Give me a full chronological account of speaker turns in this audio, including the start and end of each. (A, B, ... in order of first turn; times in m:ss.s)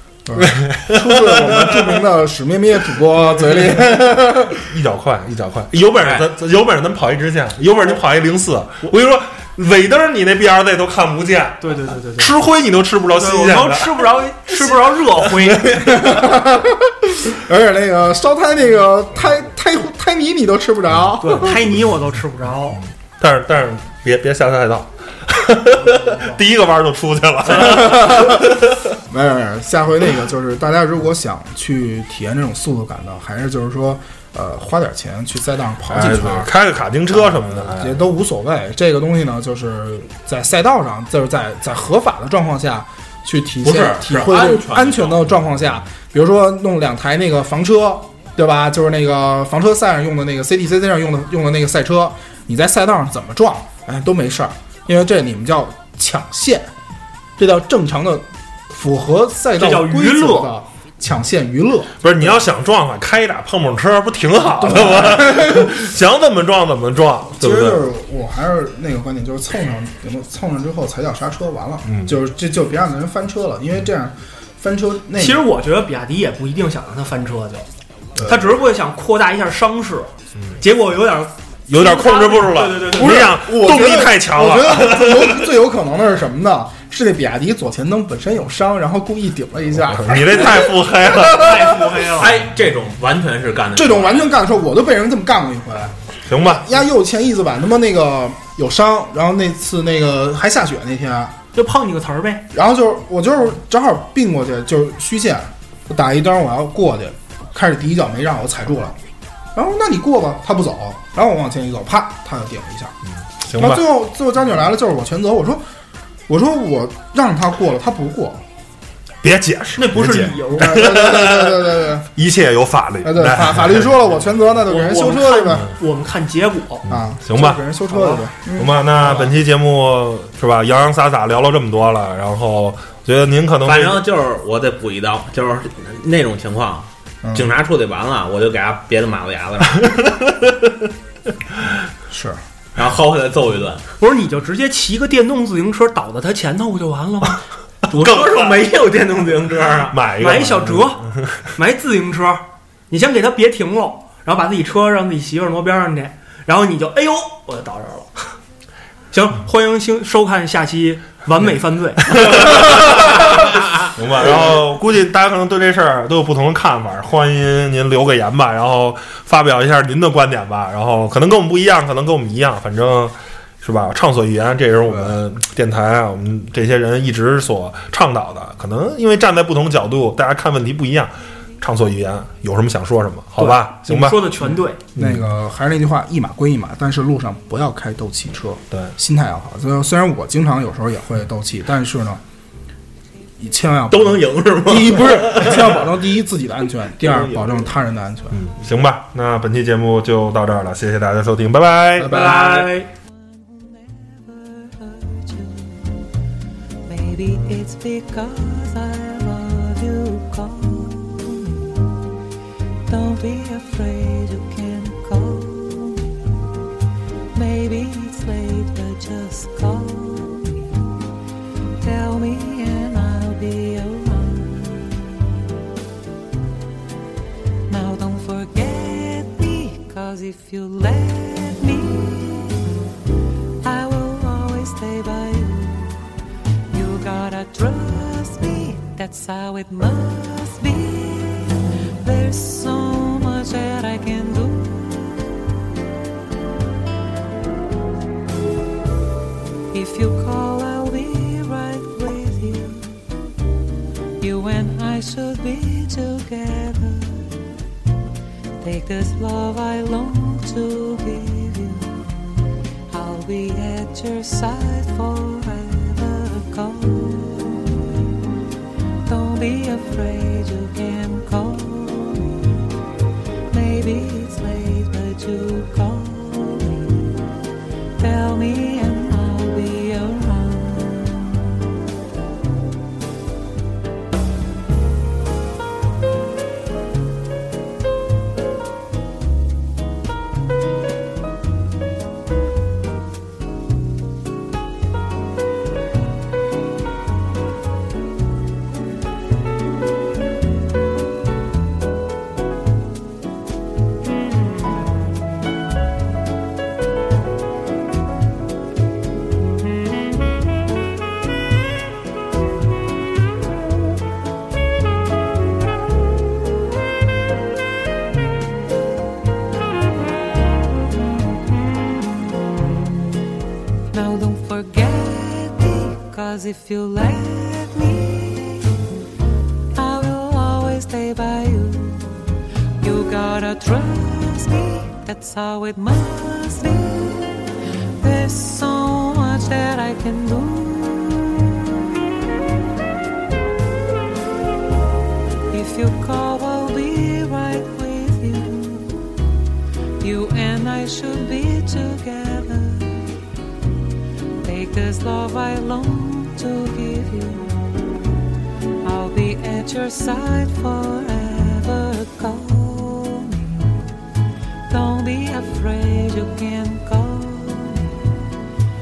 0:00.3-0:04.7 A
0:00.3-0:02.0 B
0:04.7-0:11.6 B
0:06.0-0:06.3 C
0:11.6-0:12.3 D
0:12.2-0:16.2 B
0:13.1-0:15.8 D
0:15.8-0:21.6 A
0:21.2-0:22.8 D
0:23.2-0:28.8 B
0:25.9-0:26.4 D
0:27.5-0:28.5 A
0:29.1-0:36.5 A
0:35.9-0:38.1 B
0:37.1-0:56.7 A
0:43.6-0:45.3 C
0:57.4-1:02.4 A
0:59.6-1:00.5 D
1:02.0-1:07.8 B
1:04.4-1:05.7 A
1:07.4-1:15.4 A
1:11.9-1:12.2 B
1:15.2-1:17.6 D
1:18.2-1:18.5 A
1:18.2-1:23.3 D
1:21.7-1:25.5 B
1:22.8-1:30.8 A
1:29.9-1:31.8 B
1:31.2-1:32.4 D
1:32.0-1:34.4 C
1:33.8-1:36.0 A
1:36.3-1:36.7 B
1:36.5-1:41.4 A
1:41.6-1:42.4 D
1:42.5-1:49.0 A
1:49.6-1:53.0 A
1:53.4-1:53.8 B
1:53.6-1:55.6 A
1:56.3-1:58.4 A
1:59.2-2:03.9 B
1:59.8-2:00.8 D
2:00.5-2:02.1 A
2:03.0-2:05.7 A
2:04.6-2:06.9 D
2:06.9-2:07.6 B
2:06.9-2:08.8 A
2:07.9-2:08.2 D
2:08.6-2:14.0 B
2:09.0-2:09.3 D
2:13.6-2:19.9 C
2:17.2-2:17.5 A
2:19.8-2:20.9 B
2:22.1-2:22.4 A
2:22.8-2:23.8 C
2:24.0-2:27.4 D
2:27.9-2:28.6 B
2:27.9-2:30.0 C
2:29.9-2:31.2 B
2:30.2-2:31.0 D
2:31.6-2:38.1 D
2:39.1-2:42.8 D
2:42.1-3:04.4 B
2:54.9-2:55.1 A
3:03.4-3:04.8 D
3:05.0-3:05.2 B
3:05.0-3:12.2 A
3:13.4-3:18.4 A
3:13.9-3:16.0 C
3:17.0-3:17.7 C
3:18.3-3:22.3 B
3:22.0-3:22.7 A
3:22.1-3:22.9 D
3:23.1-3:26.0 E
3:26.9-3:31.9 E
3:32.9-3:36.2 E
3:37.3-3:40.8 E
3:41.8-3:45.2 E
3:47.7-3:52.7 E
3:53.6-3:56.0 E
3:56.7-4:05.5 E
4:09.7-4:13.0 E
4:14.2-4:17.3 E
4:18.6-4:28.1 E
4:29.1-4:32.7 E
4:33.5-4:37.3 E
4:38.0-4:41.5 E
5:23.9-5:28.9 E
5:29.8-5:32.3 E
5:32.8-5:42.2 E
5:45.5-5:49.1 E
5:50.0-5:53.2 E
5:54.4-5:57.9 E
5:58.8-6:03.9 E
6:04.7-6:08.2 E